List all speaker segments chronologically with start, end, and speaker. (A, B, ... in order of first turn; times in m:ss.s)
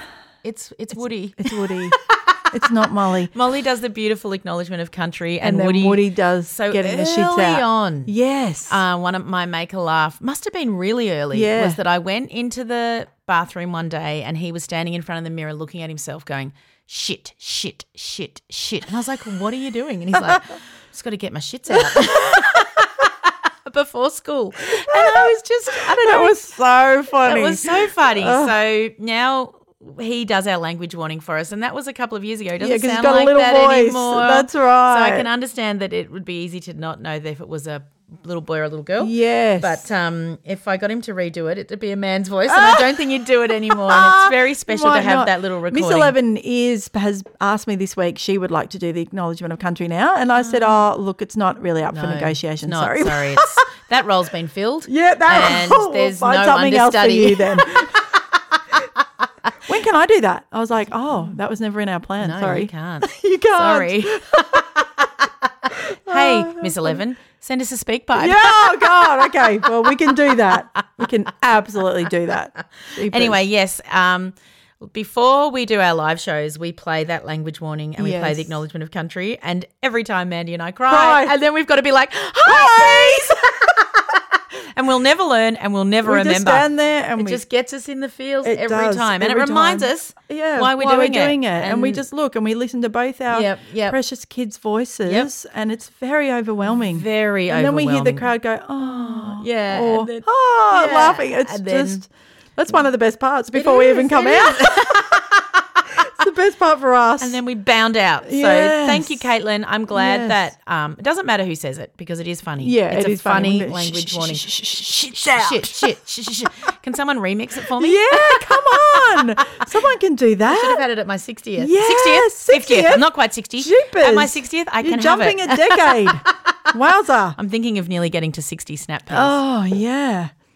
0:00.4-0:02.6 A
0:01.4-0:02.0 B
0:02.5-0:03.3 B
0:03.3-0:08.1 A
0:05.4-0:08.8 B
0:08.7-0:23.1 A
0:11.3-0:11.8 B
0:21.7-0:22.7 B
0:23.6-0:26.4 A
0:24.8-0:28.5 B
0:27.2-0:46.2 A
0:32.6-0:35.3 B
0:39.0-0:39.8 B
0:42.5-0:42.9 B
0:43.5-0:53.6 B
0:50.4-0:50.8 A
0:51.9-0:58.6 A
0:54.8-0:58.1 B
0:59.6-1:04.7 B
1:02.2-1:11.0 A
1:05.7-1:07.0 B
1:08.1-1:13.4 B
1:12.6-1:32.0 A
1:18.0-1:18.5 B
1:20.9-1:21.3 B
1:22.5-1:23.2 B
1:26.0-1:27.4 B
1:28.4-1:45.1 B
1:33.3-1:34.0 A
1:35.0-1:35.3 A
1:36.6-1:42.0 A
1:43.5-1:45.8 A
1:46.2-1:47.4 B
1:47.2-1:59.6 A
1:48.2-1:49.3 B
1:49.9-1:50.4 B
1:52.6-1:55.9 B
1:57.8-2:00.8 B
2:00.4-2:06.7 A
2:01.6-2:07.4 B
2:07.4-2:09.4 A
2:09.1-2:10.3 B